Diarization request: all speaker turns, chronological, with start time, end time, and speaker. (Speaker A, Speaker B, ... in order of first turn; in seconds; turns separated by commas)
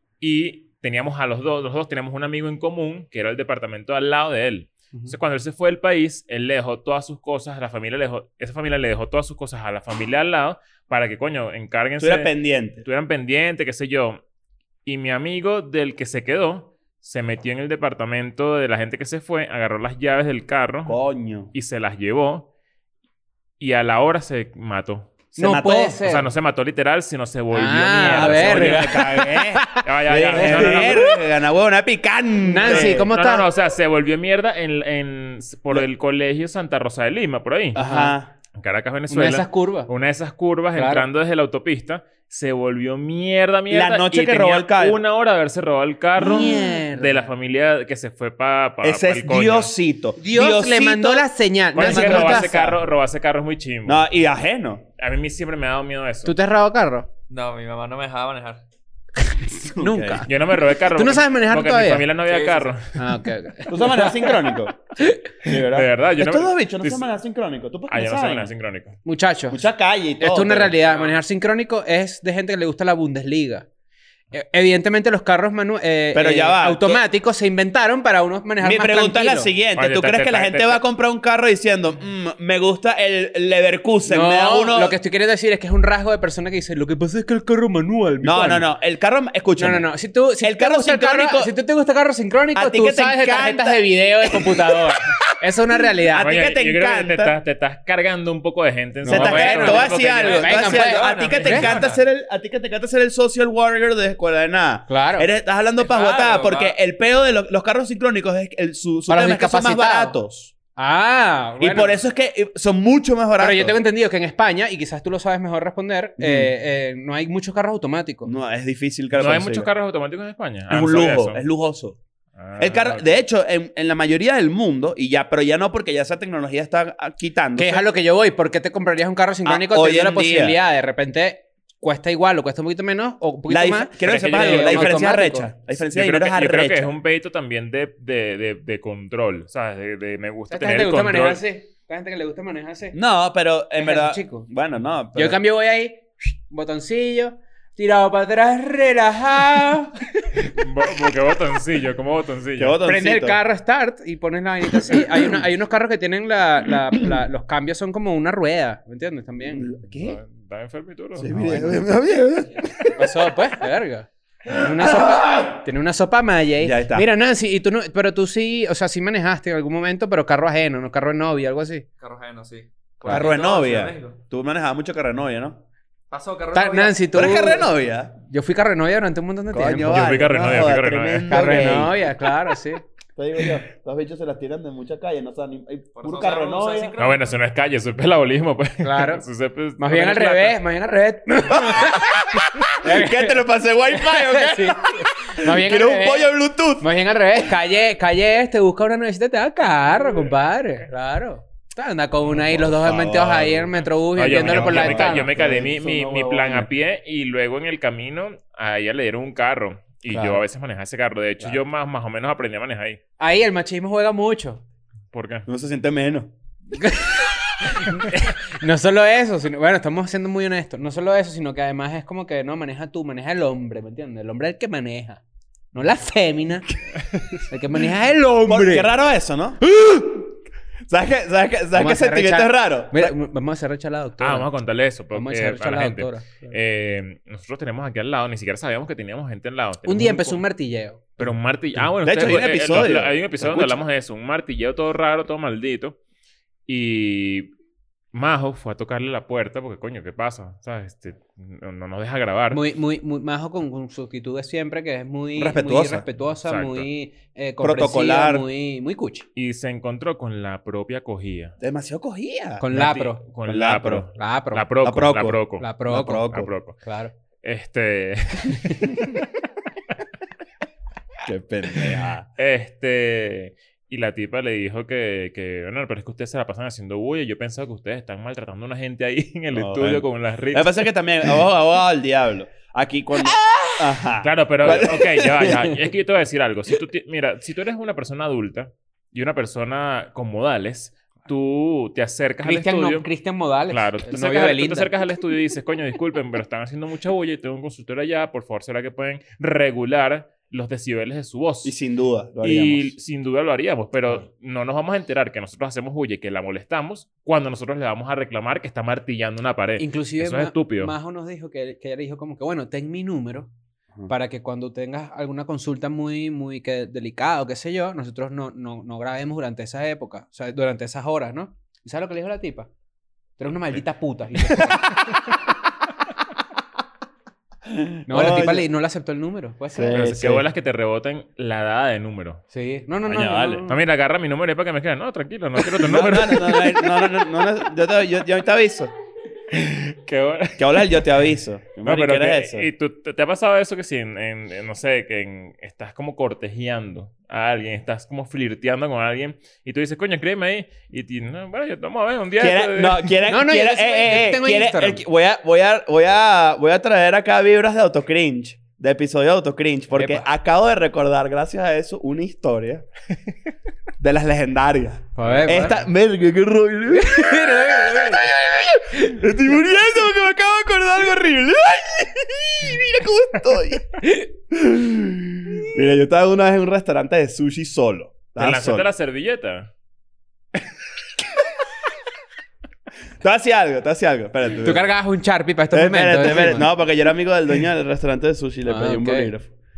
Speaker A: 0.2-12.3, Speaker B: 12.0-12.8, Speaker A: 12.8-14.2, Speaker A: 14.9-21.0, Speaker B: 20.9-21.5, Speaker A: 21.5-22.5, Speaker A: 23.6-25.2, Speaker B: 25.4-26.0, Speaker C: 25.4-26.2, Speaker A: 26.0-29.1, Speaker C: 27.5-31.1, Speaker B: 28.0-33.1, Speaker A: 29.8-31.1, Speaker C: 32.4-33.5, Speaker A: 32.6-37.8, Speaker B: 37.8-38.3, Speaker C: 37.8-38.2, Speaker A: 38.5-49.7, Speaker C: 39.1-39.9, Speaker C: 40.8-41.1, Speaker B: 43.7-45.0, Speaker C: 46.2-47.2, Speaker B: 48.8-52.8, Speaker C: 50.2-52.5, Speaker A: 51.8-54.0, Speaker B: 53.9-54.8, Speaker A: 55.0-56.4, Speaker C: 56.3-57.1, Speaker D: 57.3-58.6, Speaker C: 59.2-62.1, Speaker B: 59.6-60.3, Speaker A: 60.3-63.0, Speaker D: 62.3-62.7, Speaker C: 63.0-65.5, Speaker B: 63.7-68.5, Speaker A: 65.7-67.1, Speaker A: 67.9-69.0, Speaker C: 69.0-69.6, Speaker B: 69.5-70.8, Speaker C: 70.2-73.7, Speaker C: 74.3-79.5, Speaker B: 76.1-77.0, Speaker B: 78.6-85.0, Speaker A: 79.8-80.8, Speaker C: 84.1-88.7, Speaker B: 88.2-89.9, Speaker C: 89.6-96.3, Speaker B: 90.4-91.5, Speaker B: 92.5-95.2, Speaker B: 96.1-97.3, Speaker A: 96.2-100.4, Speaker C: 99.0-101.7, Speaker B: 99.1-110.5, Speaker D: 99.6-102.0, Speaker A: 101.5-102.0, Speaker C: 104.9-105.3, Speaker D: 105.8-106.8, Speaker C: 109.1-110.2, Speaker C: 110.8-111.9, Speaker B: 111.6-113.8, Speaker C: 113.4-118.3, Speaker B: 116.2-116.5, Speaker B: 118.2-119.7, Speaker A: 119.1-121.4, Speaker B: 120.7-122.0, Speaker A: 122.4-123.1, Speaker B: 122.6-127.8, Speaker C: 127.6-135.5, Speaker B: 129.5-130.6, Speaker B: 133.5-136.9, Speaker A: 134.0-135.0, Speaker A: 135.9-141.4, Speaker C: 140.5-143.0, Speaker B: 142.9-145.4, Speaker C: 143.8-144.5, Speaker C: 145.2-150.0, Speaker A: 150.4-152.8, Speaker B: 152.6-153.4, Speaker C: 152.8-159.7, Speaker B: 154.9-155.4, Speaker B: 159.4-160.2, Speaker A: 159.9-161.9, Speaker B: 161.2-163.1, Speaker C: 162.9-171.8, Speaker B: 164.5-165.4, Speaker B: 166.6-167.1, Speaker D: 172.0-174.2, Speaker B: 173.1-175.6, Speaker D: 176.1-177.0, Speaker C: 176.5-177.7, Speaker B: 177.1-178.2, Speaker C: 178.2-180.1, Speaker B: 179.5-182.0, Speaker A: 179.9-181.4, Speaker C: 181.3-182.8, Speaker B: 183.2-186.9, Speaker D: 186.0-187.2, Speaker A: 187.0-190.6, Speaker C: 188.8-189.2, Speaker C: 189.8-205.4, Speaker B: 191.5-196.9, Speaker B: 202.3-203.8, Speaker A: 204.2-213.0, Speaker B: 204.4-206.7, Speaker C: 210.1-210.4, Speaker C: 213.2-214.6, Speaker A: 215.1-215.5, Speaker B: 215.5-216.3, Speaker C: 216.7-225.2, Speaker C: 225.7-226.7, Speaker C: 227.5-228.9, Speaker B: 228.5-229.7, Speaker C: 229.8-230.1, Speaker B: 230.9-233.2, Speaker C: 231.7-234.5, Speaker A: 234.2-240.4, Speaker C: 235.1-236.6, Speaker C: 239.8-241.0, Speaker A: 241.2-246.0, Speaker B: 242.0-243.8, Speaker A: 246.7-247.5, Speaker A: 248.1-252.6, Speaker C: 252.5-259.3, Speaker B: 255.4-256.0, Speaker A: 256.4-256.9, Speaker B: 257.6-258.5, Speaker A: 259.4-261.6, Speaker B: 261.6-262.6, Speaker C: 262.6-263.2, Speaker A: 262.7-265.7, Speaker B: 263.5-264.1, Speaker C: 264.1-264.7, Speaker B: 264.8-266.5, Speaker C: 265.6-266.3, Speaker A: 266.3-266.8, Speaker C: 266.8-267.1, Speaker A: 267.4-269.2, Speaker B: 271.2-272.3, Speaker A: 272.4-280.9, Speaker B: 279.5-285.7, Speaker A: 284.2-293.1, Speaker C: 292.4-294.9, Speaker A: 293.7-301.7, Speaker B: 301.6-302.9, Speaker A: 302.4-310.9, Speaker C: 309.8-313.5, Speaker C: 314.1-322.7, Speaker C: 323.4-324.8, Speaker B: 327.7-328.7, Speaker C: 328.1-330.1, Speaker B: 329.7-330.4, Speaker A: 329.9-332.4, Speaker C: 332.5-333.8, Speaker A: 333.1-336.9, Speaker B: 335.8-338.9, Speaker A: 339.5-341.0, Speaker B: 340.6-342.7, Speaker A: 341.8-353.1, Speaker B: 352.4-362.9, Speaker C: 353.3-355.0, Speaker C: 359.9-360.2, Speaker B: 364.0-378.9, Speaker C: 365.2-365.8, Speaker A: 365.3-365.5, Speaker C: 366.9-368.4, Speaker A: 378.4-379.7, Speaker B: 383.2-384.9, Speaker C: 384.6-386.7, Speaker B: 385.7-389.5, Speaker C: 388.7-389.3